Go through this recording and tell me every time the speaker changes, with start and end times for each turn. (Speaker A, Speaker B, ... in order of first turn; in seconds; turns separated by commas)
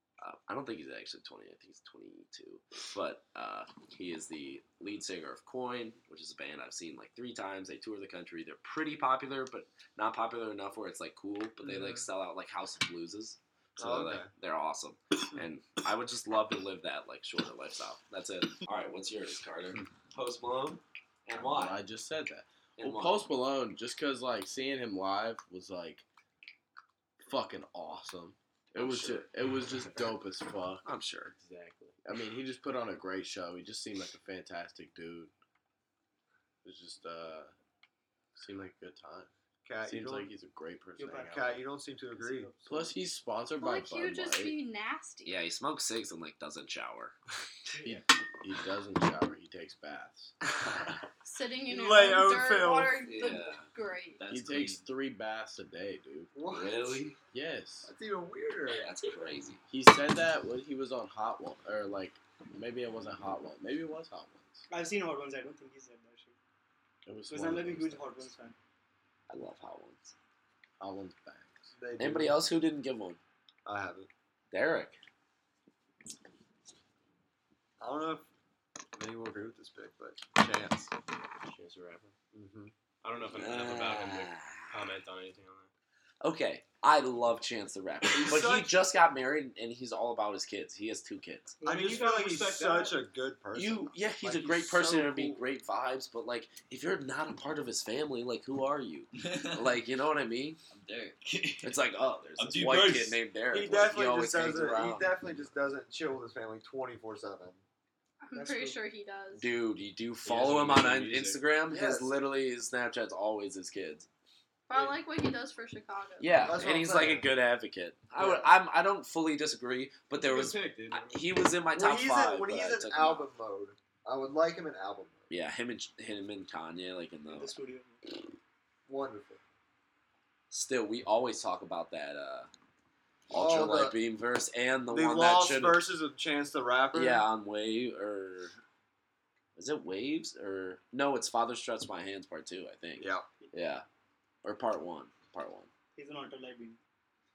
Speaker A: 0.2-21.8, Speaker B: 13.8-14.3, Speaker C: 21.4-26.1, Speaker A: 22.8-23.3, Speaker C: 27.2-30.9, Speaker A: 28.7-29.3, Speaker A: 30.9-31.3, Speaker D: 31.4-32.0, Speaker C: 32.0-35.3, Speaker C: 36.6-37.5, Speaker C: 38.4-39.3, Speaker B: 39.6-40.3, Speaker C: 39.8-41.6, Speaker E: 41.0-41.5, Speaker B: 41.3-42.7, Speaker E: 42.1-43.0, Speaker C: 42.7-44.6, Speaker F: 43.6-45.3, Speaker A: 45.2-47.1, Speaker C: 47.8-50.3, Speaker F: 51.2-54.2, Speaker B: 51.7-53.1, Speaker A: 53.0-53.7, Speaker G: 54.2-54.8, Speaker C: 54.3-56.3, Speaker B: 56.3-57.0, Speaker A: 56.5-57.2, Speaker C: 57.3-57.9, Speaker B: 57.8-58.9, Speaker A: 58.7-59.6, Speaker C: 59.7-64.7, Speaker E: 64.7-66.4, Speaker C: 67.0-68.3, Speaker E: 67.3-68.6, Speaker A: 69.3-70.1, Speaker C: 70.8-71.7, Speaker B: 71.8-72.5, Speaker A: 72.0-73.2, Speaker B: 73.7-74.1, Speaker A: 74.5-75.0, Speaker B: 77.8-78.3, Speaker B: 79.0-80.9, Speaker D: 81.4-82.1, Speaker B: 82.3-82.7, Speaker D: 83.0-85.7, Speaker A: 83.3-84.9, Speaker A: 86.2-91.6, Speaker B: 88.1-88.7, Speaker D: 91.6-93.0, Speaker B: 91.6-95.4, Speaker A: 93.5-100.6, Speaker G: 99.2-99.8, Speaker G: 100.7-101.8, Speaker A: 101.6-105.2, Speaker G: 102.4-103.2, Speaker B: 103.5-107.6, Speaker F: 108.2-109.5, Speaker E: 108.3-108.8, Speaker A: 109.4-114.1, Speaker D: 110.2-111.4, Speaker B: 111.7-112.2, Speaker F: 114.7-116.4, Speaker A: 116.2-123.3, Speaker B: 116.4-117.3, Speaker B: 118.2-118.5, Speaker D: 120.1-121.2, Speaker B: 121.7-125.3, Speaker A: 125.3-127.5, Speaker E: 127.3-128.0, Speaker B: 128.9-129.4, Speaker A: 130.5-132.5, Speaker A: 133.3-135.9, Speaker B: 133.3-134.0, Speaker B: 134.9-137.3, Speaker A: 136.9-138.6, Speaker A: 139.6-143.8, Speaker B: 143.0-143.3, Speaker A: 144.4-145.7, Speaker E: 145.9-146.8